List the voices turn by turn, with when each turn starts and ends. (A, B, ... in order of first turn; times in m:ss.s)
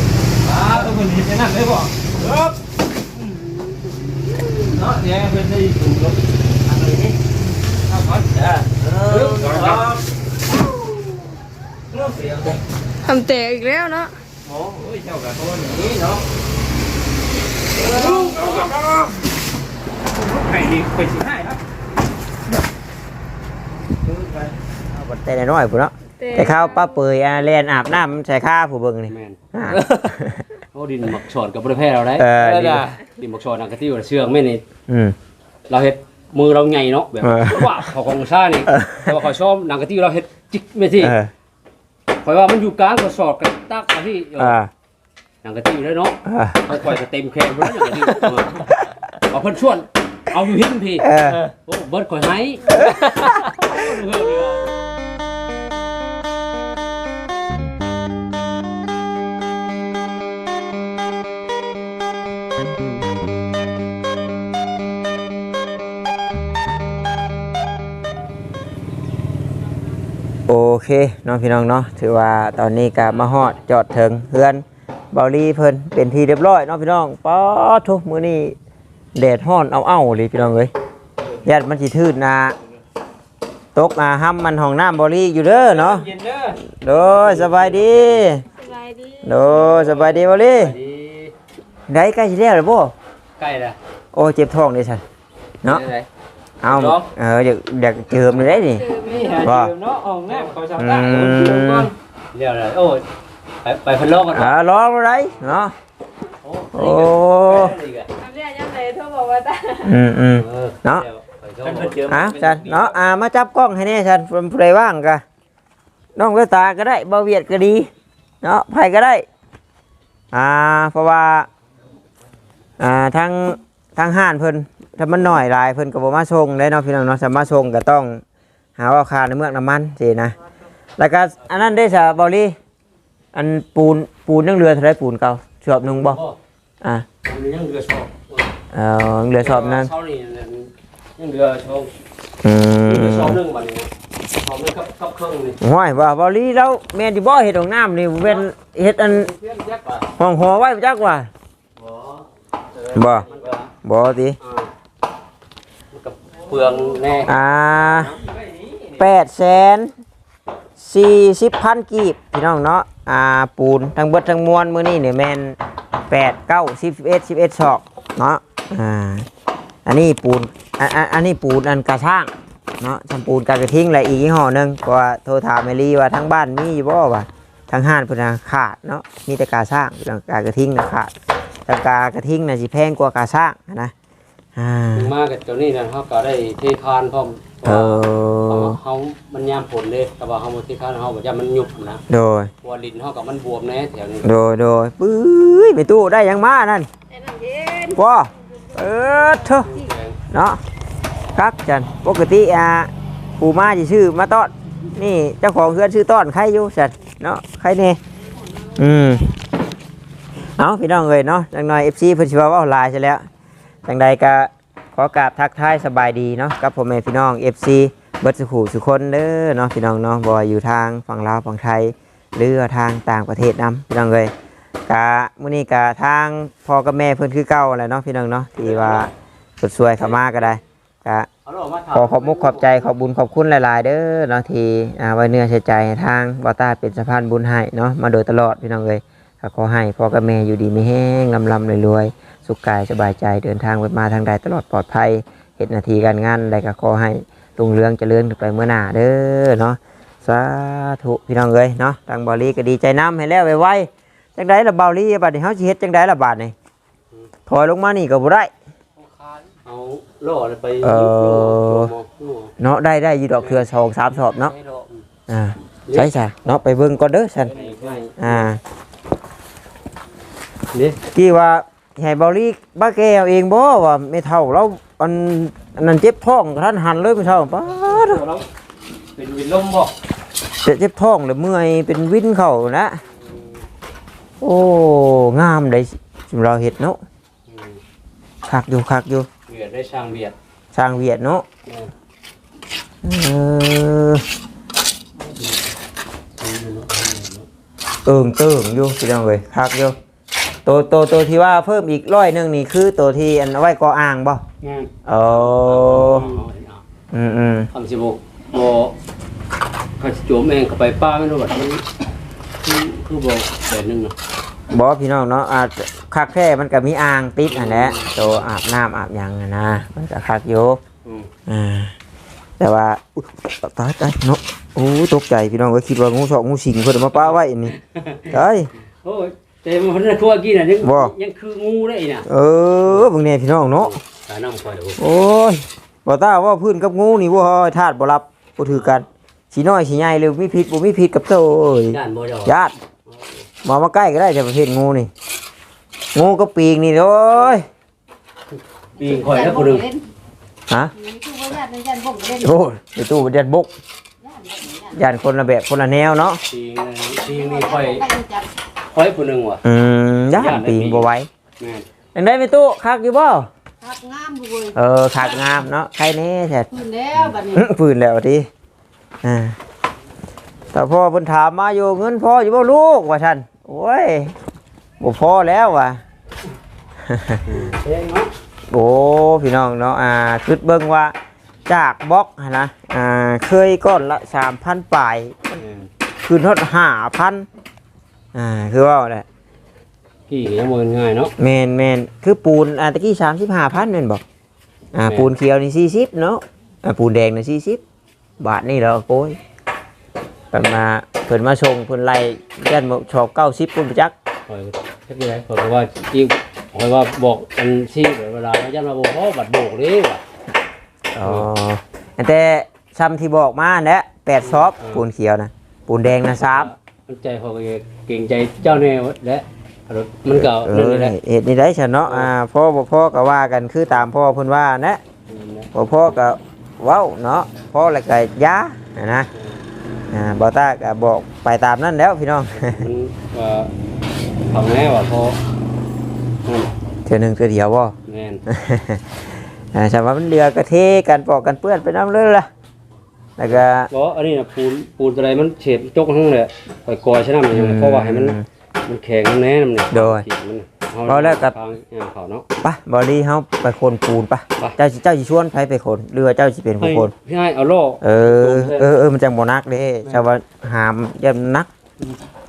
0:00.4-0:02.5 A
0:04.7-0:06.2 A
0:06.7-0:07.1 A
0:07.9-0:10.0 A
0:09.1-0:09.9 B
0:11.9-0:12.5 A
0:13.0-0:14.1 C
0:14.4-0:16.2 A
0:17.8-0:18.7 C
0:17.8-0:19.1 A
0:20.1-0:21.6 A
0:24.0-0:24.5 A
0:24.9-0:30.4 D
0:26.2-0:27.0 C
0:29.1-0:29.4 B
0:29.7-0:30.1 A
0:30.7-0:34.6 B
0:32.2-0:32.9 D
0:32.4-0:33.0 A
0:34.9-0:35.2 D
0:35.7-0:41.2 B
0:37.2-0:37.9 D
0:38.7-0:39.1 D
0:41.0-0:41.3 D
0:42.2-0:44.6 B
0:44.4-0:44.7 D
0:45.4-0:48.7 B
0:46.3-0:46.8 D
0:48.0-0:48.3 D
0:49.2-0:51.1 B
0:51.0-0:51.4 D
0:51.6-0:54.7 B
1:10.5-1:18.6 D
1:19.2-1:20.7 D
1:21.4-1:22.6 D
1:23.8-1:26.1 D
1:25.5-1:26.6 A
1:26.6-1:28.4 D
1:27.0-1:27.9 B
1:28.6-1:29.4 C
1:29.2-1:30.8 D
1:29.5-1:31.3 B
1:31.9-1:32.9 D
1:33.4-1:33.8 B
1:34.1-1:35.0 D
1:35.6-1:36.1 A
1:36.6-1:38.9 D
1:36.7-1:37.0 B
1:38.6-1:39.6 C
1:39.0-1:41.9 A
1:39.4-1:39.7 D
1:40.3-1:40.6 B
1:40.8-1:41.9 D
1:42.3-1:43.0 B
1:43.6-1:44.5 B
1:44.3-1:45.7 D
1:46.4-1:48.1 B
1:46.7-1:47.8 D
1:48.2-1:50.0 C
1:49.8-1:51.1 D
1:50.3-1:52.1 B
1:51.6-1:52.9 A
1:52.1-1:55.2 D
1:56.2-1:57.9 D
1:58.4-1:59.3 D
2:00.3-2:01.5 D
2:02.8-2:08.2 D
2:08.8-2:10.4 D
2:11.0-2:12.6 D
2:13.3-2:16.2 D
2:15.8-2:16.4 B
2:16.8-2:17.1 D
2:17.2-2:18.5 B
2:18.7-2:19.9 D
2:19.4-2:21.9 B
2:22.4-2:23.4 D
2:22.9-2:25.6 B
2:25.6-2:29.3 D
2:29.0-2:30.1 B
2:30.2-2:31.3 D
2:31.8-2:32.2 B
2:32.8-2:33.5 A
2:32.9-2:33.3 D
2:33.0-2:33.7 B
2:33.8-2:34.4 D
2:34.4-2:34.7 B
2:35.9-2:37.3 B
2:36.7-2:37.2 A
2:37.3-2:38.1 D
2:38.0-2:39.0 A
2:39.0-2:39.9 D
2:40.8-2:45.6 D
2:46.1-2:49.3 D
2:49.9-3:01.1 D
3:01.7-3:03.9 D
3:04.6-3:05.1 D
3:04.9-3:12.0 B
3:07.6-3:08.8 D
3:12.1-3:12.5 D
3:12.6-3:14.3 B
3:14.2-3:16.9 D
3:17.1-3:18.0 E
3:18.0-3:19.7 D
3:19.2-3:19.9 E
3:19.6-3:20.2 B
3:20.3-3:20.6 D
3:21.4-3:28.0 D
3:28.6-3:29.3 E
3:28.8-3:29.3 D
3:30.6-3:33.3 D
3:33.9-3:44.3 D
3:44.9-3:51.3 D
3:48.6-3:49.1 B
3:50.0-3:50.4 B
3:51.4-3:52.8 B
3:51.9-4:16.5 D
4:17.5-4:18.5 D
4:19.0-4:19.5 A
4:19.6-4:22.5 B
4:20.8-4:21.9 D
4:22.6-4:24.5 D
4:23.4-4:23.6 B
4:24.4-4:25.0 B
4:25.3-4:27.6 D
4:25.9-4:26.1 B
4:27.4-4:28.5 B
4:28.2-4:28.6 D
4:30.7-4:31.0 B
4:31.1-4:38.2 D
4:37.8-4:38.4 A
4:39.2-4:39.9 A
4:40.6-4:43.0 D
4:43.1-4:43.6 B
4:44.4-4:47.0 D
4:47.5-4:47.8 B
4:48.5-4:49.3 D
4:49.5-4:50.4 B
4:50.7-4:51.5 D
4:51.7-4:51.9 B
4:53.0-4:54.2 D
4:55.2-4:55.6 B
4:56.4-4:57.5 B
4:58.0-5:00.0 D
5:00.7-5:04.4 D
5:04.6-5:06.8 B
5:05.1-5:06.4 D
5:07.1-5:07.7 D
5:07.7-5:08.9 B
5:10.0-5:11.8 B
5:12.6-5:14.2 B
5:14.7-5:20.8 D
5:17.5-5:18.4 B
5:21.5-5:21.9 D
5:22.6-5:27.7 D
5:27.7-5:28.4 B
5:28.3-5:28.7 D
5:29.0-5:32.3 B
5:30.8-5:31.1 D
5:32.3-5:34.0 D
5:33.7-5:35.0 B
5:35.0-5:42.7 D
5:38.7-5:39.1 B
5:41.9-5:42.5 B
5:43.1-5:43.5 B
5:43.6-5:45.1 D
5:46.1-5:47.7 D
5:49.0-5:49.9 B
5:49.0-5:50.0 E
5:51.0-5:52.7 E
5:52.4-5:53.7 D
5:54.2-5:55.0 E
5:54.9-5:56.4 D
5:56.4-5:58.1 B
5:57.1-5:58.5 E
5:58.9-5:59.6 B
5:59.6-6:01.3 D
6:00.3-6:01.1 B
6:01.6-6:01.9 B
6:02.2-6:03.5 D
6:03.8-6:05.4 E
6:04.8-6:08.5 D
6:06.7-6:07.7 E
6:09.2-6:09.6 D
6:10.7-6:14.4 D
6:15.0-6:16.0 D
6:17.0-6:17.7 D
6:17.4-6:18.3 B
6:18.7-6:21.1 D
6:21.7-6:25.6 D
6:25.6-6:25.9 B
6:26.2-6:27.5 D
6:28.3-6:29.2 D
6:30.3-6:31.3 B
6:31.4-6:34.2 D
6:34.9-6:37.8 D
6:38.4-6:39.4 D
6:40.5-6:44.1 D
6:44.5-6:50.2 B
6:51.1-6:56.7 D
6:51.2-6:51.5 B
6:54.4-6:55.0 B
6:56.4-7:01.2 B
7:00.3-7:05.0 D
7:02.0-7:02.3 B
7:05.3-7:05.7 B
7:05.7-7:09.3 D
7:09.3-7:09.6 B
7:10.1-7:12.8 D
7:12.5-7:13.7 B
7:14.5-7:15.4 B
7:16.4-7:16.7 B
7:17.1-7:18.0 D
7:18.0-7:18.4 B
7:18.5-7:19.2 D
7:19.7-7:22.5 D
7:23.4-7:23.9 D
7:23.4-7:32.4 B
7:27.5-7:28.5 D
7:29.9-7:30.2 D
7:31.1-7:31.5 D
7:32.6-7:37.1 D
7:36.8-7:38.9 B
7:38.0-7:41.7 D